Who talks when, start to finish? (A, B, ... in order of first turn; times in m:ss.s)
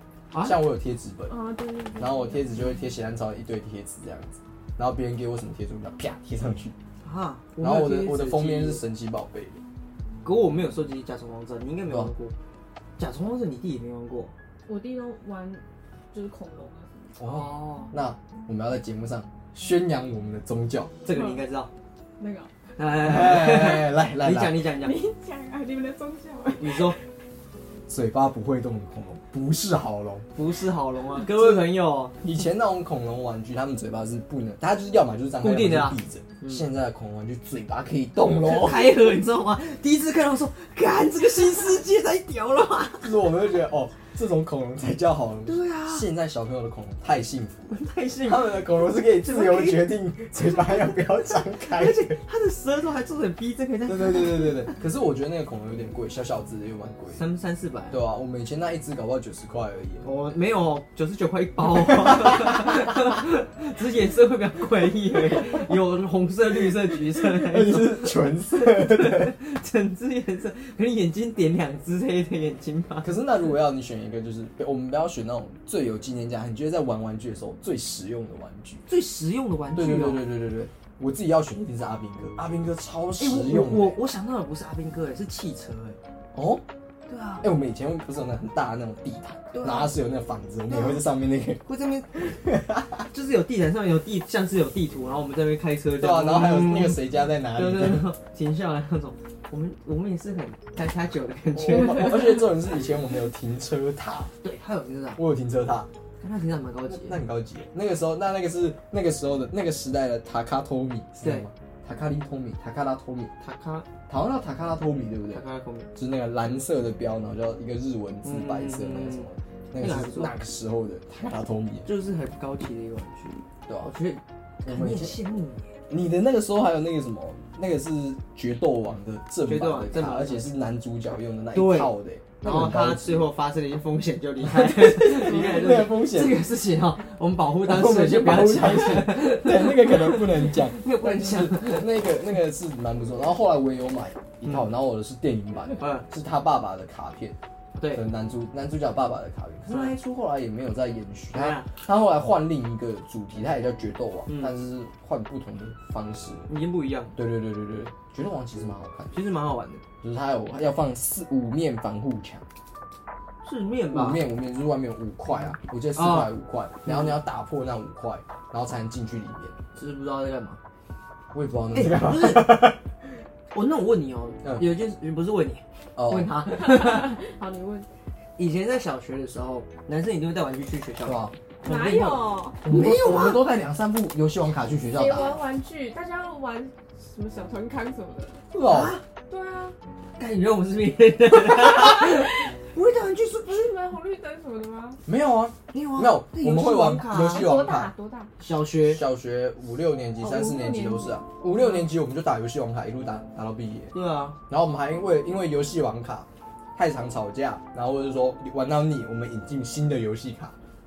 0:00.3-0:00.6 A
0:00.4-0:01.3 B
0:01.3-0:02.8 C
0:02.0-0:06.8 B
0:07.0-0:08.8 A
0:07.6-0:09.6 B
0:10.2-0:12.3 A
0:13.0-0:14.3 A
0:14.7-0:17.1 C
0:17.2-0:21.0 B
0:17.2-0:17.9 A
0:21.0-0:21.7 A
0:21.1-0:21.4 C
0:22.2-0:22.5 C
0:22.8-0:25.0 A
0:23.0-0:24.6 B
0:24.8-0:27.0 C
0:26.6-0:27.0 A
0:27.9-0:30.2 B
0:30.3-0:32.2 A
0:31.2-0:31.7 B
0:32.2-0:38.9 B
0:35.4-0:36.6 A
0:38.4-0:43.1 A
0:43.0-0:52.2 B
0:45.4-0:46.1 A
0:47.7-0:49.9 A
0:51.6-0:54.7 A
0:53.8-0:57.2 B
0:57.1-0:58.0 A
0:57.9-1:00.0 B
1:00.0-1:13.2 A
1:01.9-1:02.8 B
1:07.1-1:09.4 B
1:13.0-1:18.8 B
1:18.9-1:20.3 A
1:19.7-1:24.0 B
1:23.2-1:26.0 A
1:26.3-1:26.6 B
1:27.1-1:27.4 A
1:27.4-1:31.6 B
1:29.5-1:29.9 A
1:30.7-1:31.0 A
1:31.6-1:32.3 A
1:32.1-1:33.0 B
1:33.1-1:42.5 A
1:36.0-1:38.1 B
1:41.5-1:44.3 B
1:44.4-1:45.2 A
1:45.2-1:45.9 B
1:46.2-1:47.2 A
1:46.9-1:53.3 B
1:53.4-1:53.9 A
1:54.1-1:55.4 B
1:55.3-1:55.9 A
1:55.9-2:01.9 B
1:58.2-2:00.4 A
2:01.8-2:05.7 A
2:03.7-2:03.9 B
2:04.6-2:05.2 B
2:05.9-2:13.3 B
2:09.4-2:10.5 A
2:11.5-2:22.1 A
2:14.4-2:16.4 B
2:17.6-2:27.4 B
2:24.4-2:24.7 A
2:25.8-2:26.1 A
2:27.8-2:28.0 A
2:27.9-2:36.4 B
2:29.7-2:30.0 A
2:31.3-2:31.7 A
2:34.3-2:34.5 A
2:36.5-2:37.1 A
2:37.2-2:39.2 B
2:39.1-2:39.8 A
2:40.0-2:42.4 B
2:43.4-2:44.2 A
2:43.9-2:49.5 B
2:45.9-2:46.3 A
2:46.8-2:47.2 A
2:49.7-2:50.6 A
2:51.3-2:52.8 B
2:51.7-2:52.7 A
2:53.5-2:57.2 A
2:54.4-2:54.7 B
2:56.0-2:56.4 B
2:56.5-2:57.8 C
2:58.4-3:03.5 A
3:01.0-3:01.3 B
3:01.6-3:02.6 C
3:02.6-3:05.4 B
3:04.9-3:08.4 C
3:08.5-3:09.0 B
3:08.6-3:09.0 A
3:09.3-3:09.7 C
3:10.2-3:13.7 A
3:11.6-3:12.5 C
3:13.4-3:15.0 C
3:15.0-3:17.9 B
3:15.7-3:17.5 A
3:17.2-3:18.3 C
3:18.4-3:19.0 A
3:18.8-3:23.9 B
3:20.2-3:21.8 C
3:23.9-3:24.4 A
3:24.5-3:30.6 B